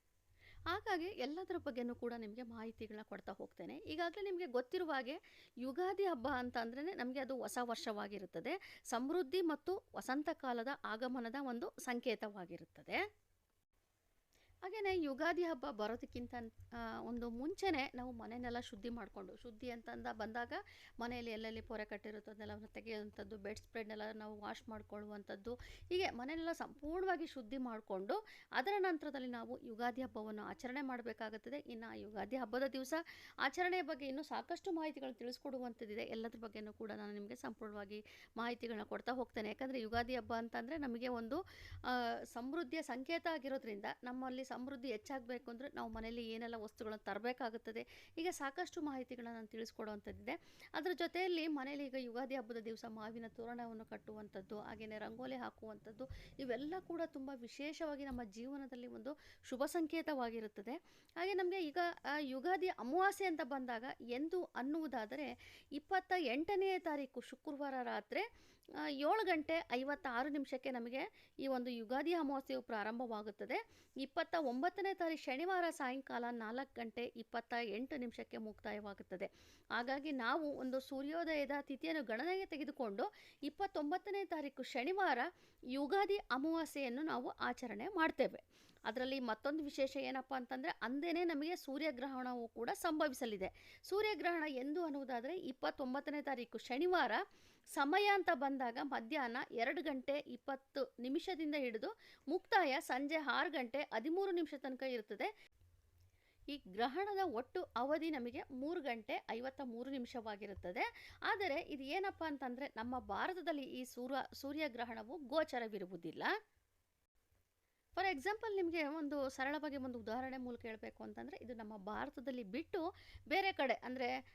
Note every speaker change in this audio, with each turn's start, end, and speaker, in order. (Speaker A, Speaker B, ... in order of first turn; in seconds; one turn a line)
Speaker A: 0.7-13.0
Speaker A: 14.7-68.3
Speaker A: 69.0-97.2
Speaker A: 97.7-105.3
Speaker A: 106.5-116.3
Speaker A: 118.0-124.1